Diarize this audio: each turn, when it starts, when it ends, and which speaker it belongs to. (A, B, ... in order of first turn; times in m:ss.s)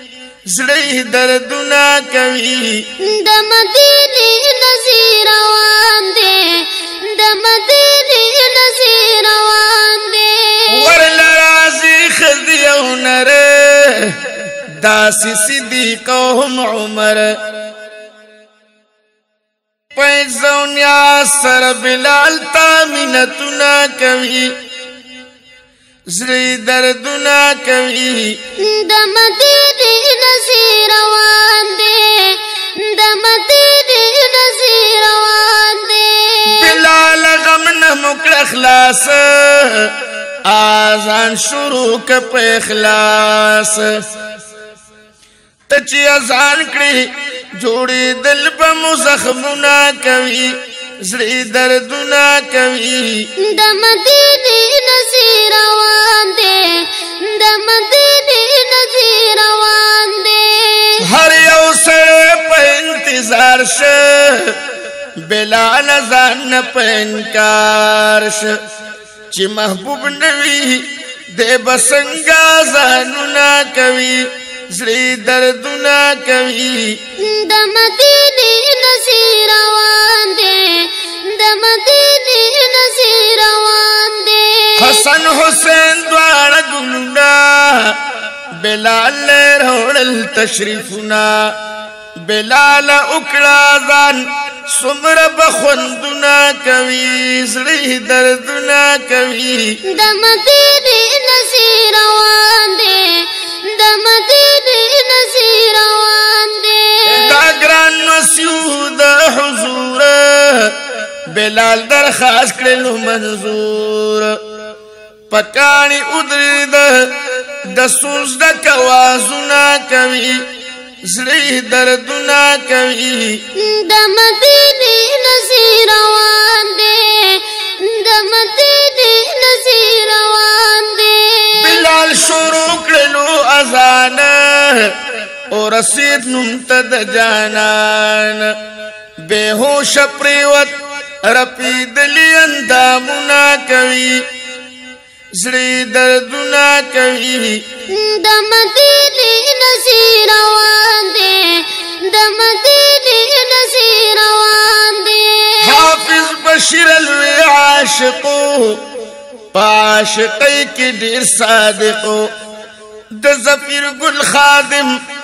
0:00.4-0:02.9 A
0:03.0-0:11.0 B
0:10.7-0:17.4 A
0:19.9-0:24.6 A
0:26.1-0:28.4 A
0:28.6-0:36.8 B
0:36.4-0:39.9 A
0:40.4-0:44.0 A
0:45.7-0:53.3 A
0:53.4-1:01.0 B
1:01.0-1:04.6 A
1:05.2-1:08.6 A
1:09.3-1:17.0 A
1:17.2-1:25.0 B
1:24.8-1:28.0 A
1:28.5-1:31.5 A
1:32.2-1:39.8 A
1:39.8-1:47.4 B
1:47.1-1:50.8 A
1:51.3-1:54.4 A
1:55.3-2:00.5 A
2:01.0-2:03.4 A
2:03.5-2:11.9 B
2:11.5-2:15.0 A
2:15.5-2:18.5 A
2:19.2-2:24.3 A
2:25.3-2:27.7 A
2:27.9-2:35.8 B
2:35.6-2:38.8 A
2:39.5-2:42.3 A
2:43.1-2:45.0 A